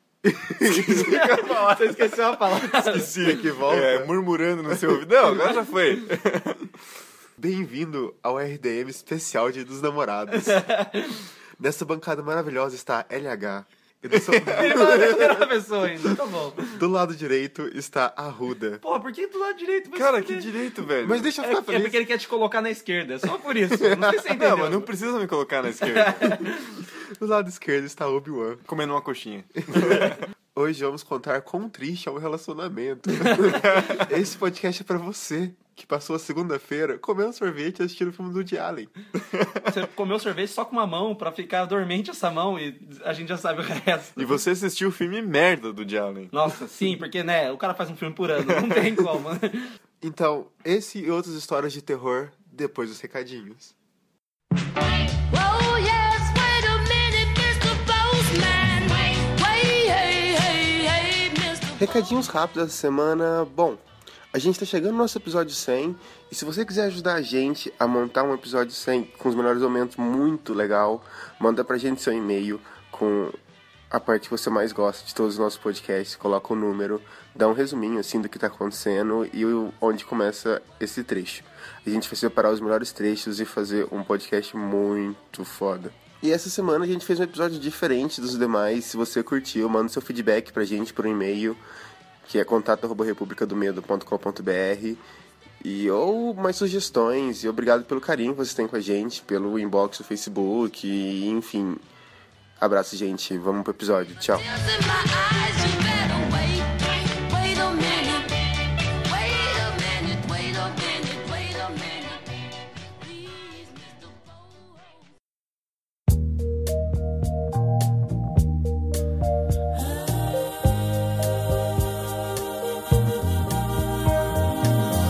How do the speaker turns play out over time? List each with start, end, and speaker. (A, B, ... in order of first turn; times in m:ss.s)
0:00.2-0:01.4 A
0:00.7-0:03.1 B
0:02.7-0:06.7 C
0:03.1-0:04.1 A
0:04.7-0:05.5 A
0:07.4-0:10.6 A
0:10.3-0:11.2 B
0:11.6-0:15.5 A
0:14.1-0:14.7 C
0:14.5-0:16.8 B
0:16.7-0:18.8 A
0:18.8-0:20.5 B
0:20.0-0:21.3 C
0:21.0-0:22.1 A
0:21.4-0:24.9 B
0:24.3-0:26.4 C
0:25.9-0:26.8 B
0:27.0-0:28.6 A
0:28.7-0:30.2 C
0:29.7-0:38.9 A
0:33.3-0:34.0 C
0:39.3-0:39.7 C
0:39.7-0:44.4 B
0:44.2-0:46.3 C
0:46.3-0:49.7 B
0:48.4-0:49.0 C
0:50.0-0:53.7 A
0:54.8-1:02.2 D
1:01.8-1:13.4 A
1:13.9-1:31.6 A
1:32.2-1:35.0 A
1:35.6-1:41.8 A
1:42.6-1:44.5 A
1:44.3-1:52.4 D
1:53.0-1:55.1 D